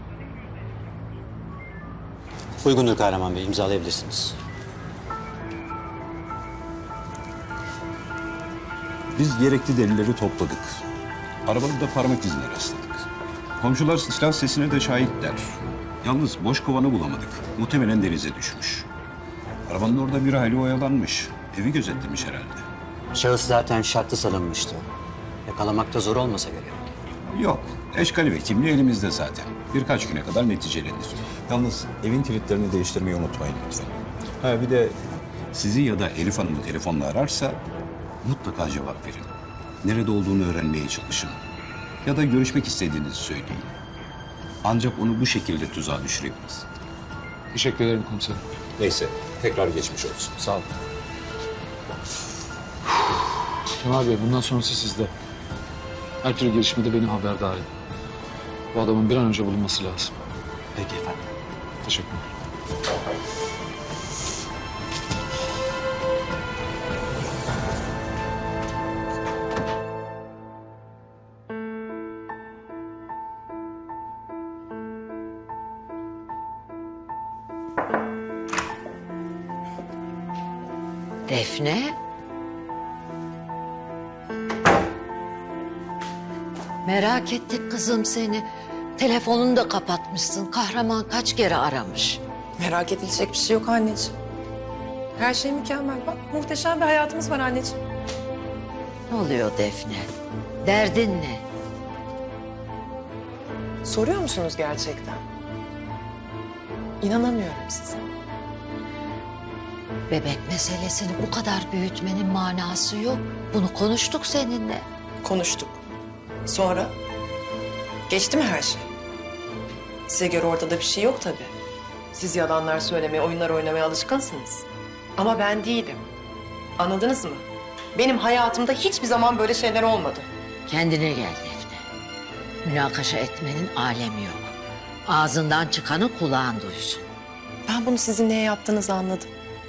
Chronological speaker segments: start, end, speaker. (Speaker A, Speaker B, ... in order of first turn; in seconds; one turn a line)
Speaker A: 2.6-4.4
Speaker B: 9.1-10.8
Speaker B: 11.5-13.1
Speaker B: 13.6-18.9
Speaker B: 19.7-22.6
Speaker A: 23.1-24.9
Speaker A: 25.5-26.8
Speaker B: 27.3-35.0
Speaker B: 35.5-37.6
Speaker B: 38.2-39.3
Speaker B: 39.8-41.4
Speaker B: 42.0-43.7
Speaker B: 44.6-46.7
Speaker C: 47.5-48.4
Speaker B: 48.8-50.4
Speaker C: 50.4-50.7
Speaker C: 53.8-55.1
Speaker C: 56.2-57.7
Speaker C: 58.7-60.1
Speaker A: 60.8-61.1
Speaker C: 61.8-62.3
Speaker D: 81.3-82.0
Speaker D: 86.8-92.2
Speaker E: 92.6-94.1
Speaker E: 95.2-97.8
Speaker D: 99.1-100.1
Speaker D: 100.6-101.5
Speaker E: 103.8-105.2
Speaker E: 107.0-108.0
Speaker D: 110.1-114.9
Speaker E: 115.2-115.8
Speaker E: 116.5-116.9
Speaker E: 118.1-118.9
Speaker E: 120.1-121.5
Speaker E: 122.1-124.7
Speaker E: 125.2-126.1
Speaker E: 126.8-127.4
Speaker E: 128.0-130.3
Speaker D: 130.7-131.8
Speaker D: 132.6-134.6
Speaker D: 135.1-137.1
Speaker E: 137.7-139.3